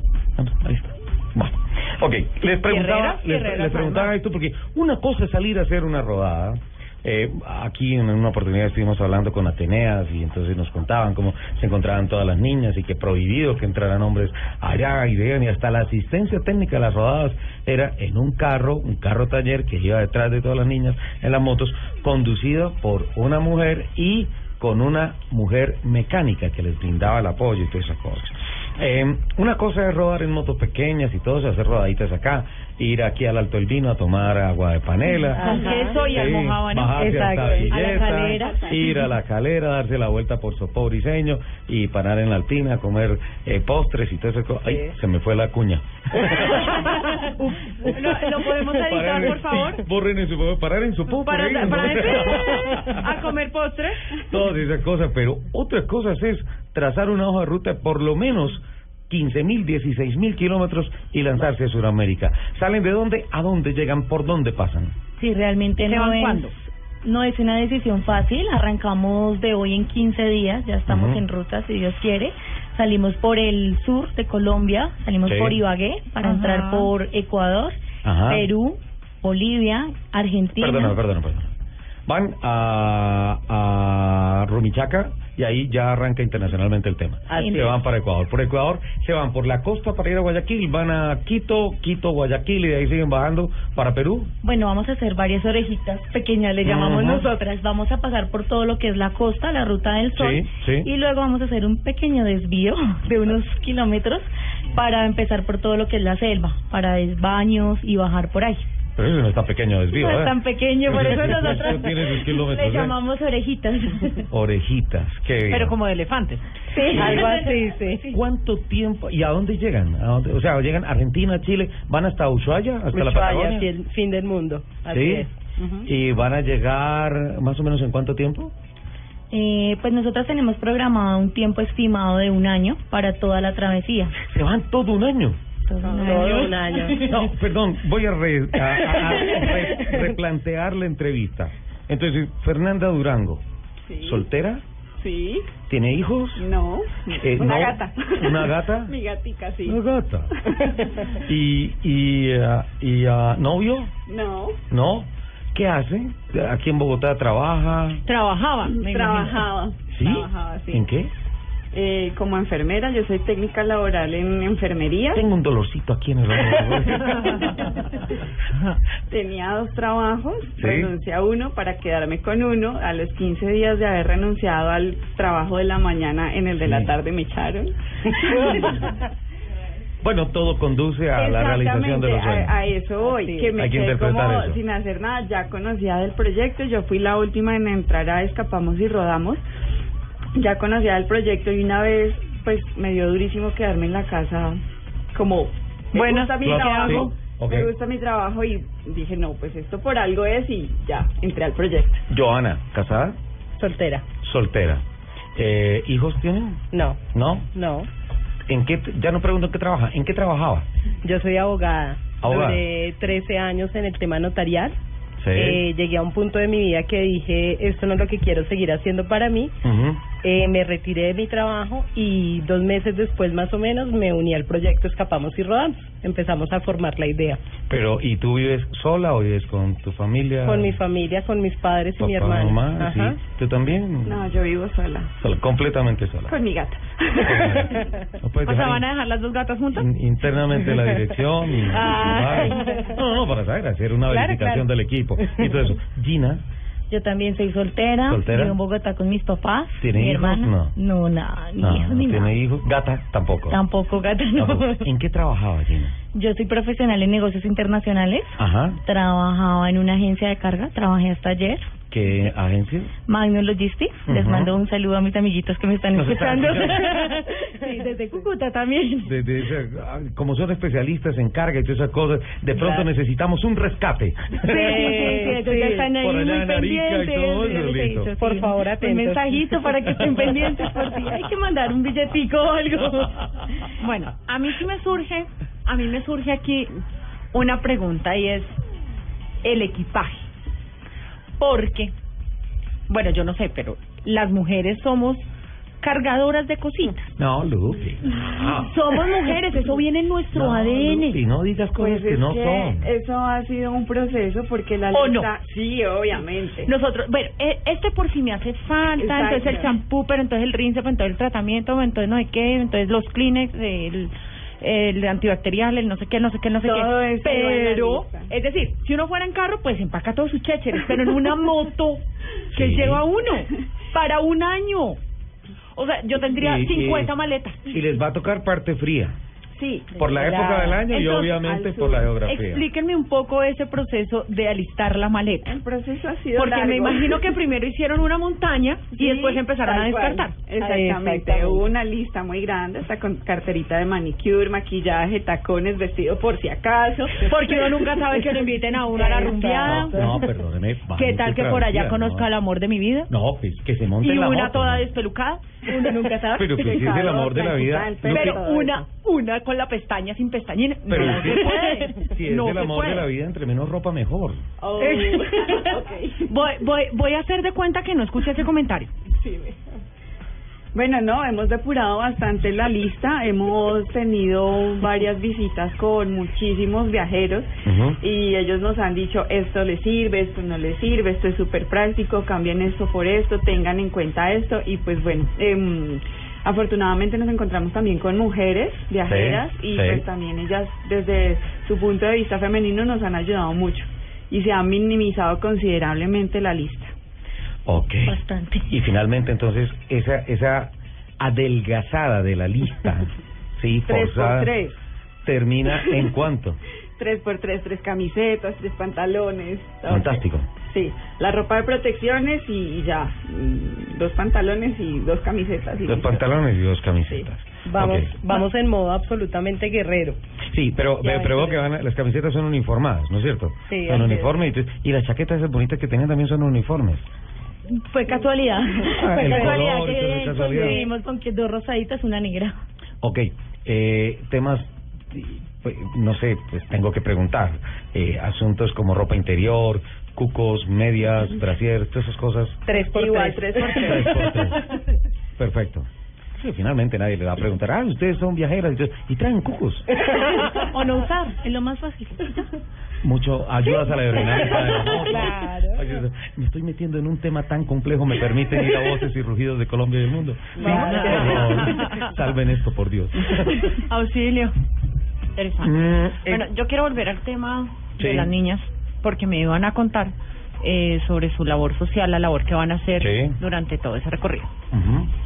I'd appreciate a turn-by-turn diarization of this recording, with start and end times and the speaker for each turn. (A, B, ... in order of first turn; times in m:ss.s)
0:00.4-0:35.5 A
0:02.7-0:04.1 B
0:35.4-0:36.0 C
0:35.4-0:37.2 B
0:36.0-0:46.7 A
0:37.0-0:38.9 D
0:37.0-0:37.5 C
0:37.7-0:38.6 E
0:46.5-0:49.8 B
0:48.7-0:53.0 A
0:51.1-0:54.1 B
0:54.2-1:04.9 A
1:05.2-1:21.0 E
1:05.8-1:06.5 B
1:10.9-1:11.2 A
1:15.3-1:15.6 A
1:16.2-1:16.9 B
1:18.0-1:18.5 A
1:20.6-1:21.5 A
1:22.1-1:34.3 A
1:27.3-1:27.7 C
1:27.3-1:27.7 E
1:34.4-1:48.7 E
1:36.6-1:37.3 A
1:40.2-1:40.9 A
1:49.0-1:50.4 A
1:49.9-1:54.3 E
1:50.9-1:53.0 A
1:51.0-1:51.7 B
1:54.3-1:55.8 A
1:55.5-1:56.4 B
1:56.7-1:58.2 E
1:56.9-1:58.0 C
1:56.9-1:57.3 A
1:58.1-2:03.7 A
2:02.9-2:05.9 C
2:04.9-2:05.3 A
2:05.9-2:08.5 A
2:09.3-2:14.2 E
2:14.2-2:15.4 A
2:15.7-2:16.6 E
2:15.8-2:17.0 C
2:17.0-2:23.4 A
2:18.9-2:20.0 C
2:23.9-2:24.2 D
2:24.0-2:24.6 A
2:25.0-2:25.5 D
2:25.7-2:26.5 A
2:26.4-2:29.8 D
2:27.2-2:28.9 A
2:29.7-2:30.3 A
2:31.1-2:33.9 A
2:34.1-2:34.6 D
2:34.7-2:38.0 A
2:38.0-2:39.5 B
2:38.6-2:40.9 D
2:39.9-2:41.1 A
2:41.7-2:45.2 D
2:45.1-2:47.4 A
2:49.1-2:58.7 D
2:50.6-2:50.9 A
2:56.6-2:56.9 A
3:00.0-3:02.6 A
3:01.2-3:09.4 D
3:03.0-3:03.5 C
3:03.6-3:04.6 A
3:10.4-3:14.6 D
3:15.1-3:22.0 D
3:15.9-3:17.1 B
3:16.4-3:17.7 A
3:22.1-3:23.2 A
3:23.6-3:24.0 C
3:24.2-3:24.8 A
3:25.4-3:26.6 A
3:26.7-3:27.0 C
3:27.1-3:27.5 A
3:27.5-3:27.9 C
3:28.5-3:30.7 A
3:31.0-3:34.8 C
3:32.2-3:32.6 A
3:35.2-3:35.6 A
3:35.3-3:39.5 C
3:39.6-3:40.0 A
3:40.2-3:47.4 C
3:47.7-3:50.8 A
3:50.4-3:53.2 C
3:52.0-3:54.2 A
3:54.1-3:55.1 D
3:55.2-3:56.4 A
3:56.3-3:57.7 D
3:57.2-3:58.8 A
3:58.4-3:59.9 B
3:59.7-4:06.4 A
4:01.7-4:02.6 B
4:04.1-4:04.7 B
4:06.9-4:12.4 E
4:08.1-4:08.6 A
4:09.8-4:10.8 A
4:11.6-4:13.6 A
4:13.5-4:14.8 E
4:14.4-4:16.0 A
4:16.1-4:21.7 E
4:18.4-4:18.8 A
4:21.9-4:22.9 A
4:23.1-4:27.8 E
4:24.1-4:24.5 A
4:25.9-4:26.9 A
4:26.3-4:29.1 B
4:29.0-4:35.0 A
4:34.4-4:41.2 B
4:34.6-4:35.9 C
4:36.0-4:38.1 A
4:38.2-4:39.3 C
4:39.3-4:43.1 E
4:43.8-4:46.7 B
4:47.3-4:48.6 B
4:49.4-4:50.2 B
4:51.4-4:51.9 B
4:52.9-4:55.3 B
4:55.8-4:57.1 B
4:57.2-4:58.7 A
4:58.6-5:01.2 B
5:00.3-5:02.9 A
5:01.8-5:06.7 D
5:04.9-5:05.3 B
5:06.7-5:25.0 B
5:09.0-5:09.7 D
5:16.6-5:18.3 D
5:22.5-5:23.0 A
5:25.8-5:27.6 B
5:26.4-5:27.1 A
5:27.7-5:29.2 A
5:29.6-5:30.8 D
5:30.0-5:32.7 A
5:30.9-5:31.4 B
5:31.3-5:32.2 D
5:32.2-5:35.6 B
5:35.4-5:37.3 D
5:36.3-5:40.5 B
5:38.9-5:48.4 D
5:40.6-5:41.7 C
5:47.2-5:50.1 B
5:48.9-5:50.2 D
5:49.3-5:49.6 E
5:49.6-5:52.3 A
5:51.0-5:53.1 B
5:53.1-5:54.9 A
5:54.0-5:56.9 B
5:56.4-5:58.4 A
5:56.5-5:58.9 D
5:58.0-6:03.1 B
6:00.9-6:04.4 A
6:04.6-6:06.3 D
6:04.8-6:05.7 B
6:06.2-6:08.9 B
6:09.1-6:09.6 D
6:10.7-6:17.5 D
6:17.7-6:18.0 A
6:18.0-6:36.9 D
6:29.1-6:30.0 A
6:37.7-6:38.1 A
6:38.0-6:38.7 E
6:38.7-6:44.5 A
6:43.9-6:44.8 D
6:45.3-6:46.6 A
6:47.0-6:56.2 D
6:49.9-6:50.5 A
6:55.8-6:58.2 A
6:57.7-7:00.2 C
7:00.5-7:07.1 A
7:01.0-7:01.6 C
7:03.7-7:04.4 C
7:07.7-7:12.6 E
7:08.9-7:10.8 A
7:09.3-7:10.9 C
7:13.0-7:22.6 A
7:22.7-7:24.2 C
7:22.9-7:24.4 D
7:23.6-7:24.7 A
7:25.4-7:29.9 A
7:30.4-7:32.5 E
7:30.7-7:31.1 B
7:33.0-7:43.8 A
7:35.0-7:35.8 C
7:35.1-7:35.4 B
7:40.6-7:41.5 C
7:40.6-7:42.1 B
7:43.4-7:44.6 B
7:45.4-7:54.5 B
7:45.6-7:46.5 A
7:48.0-7:48.3 A
7:53.0-7:53.4 A
7:54.7-7:55.1 A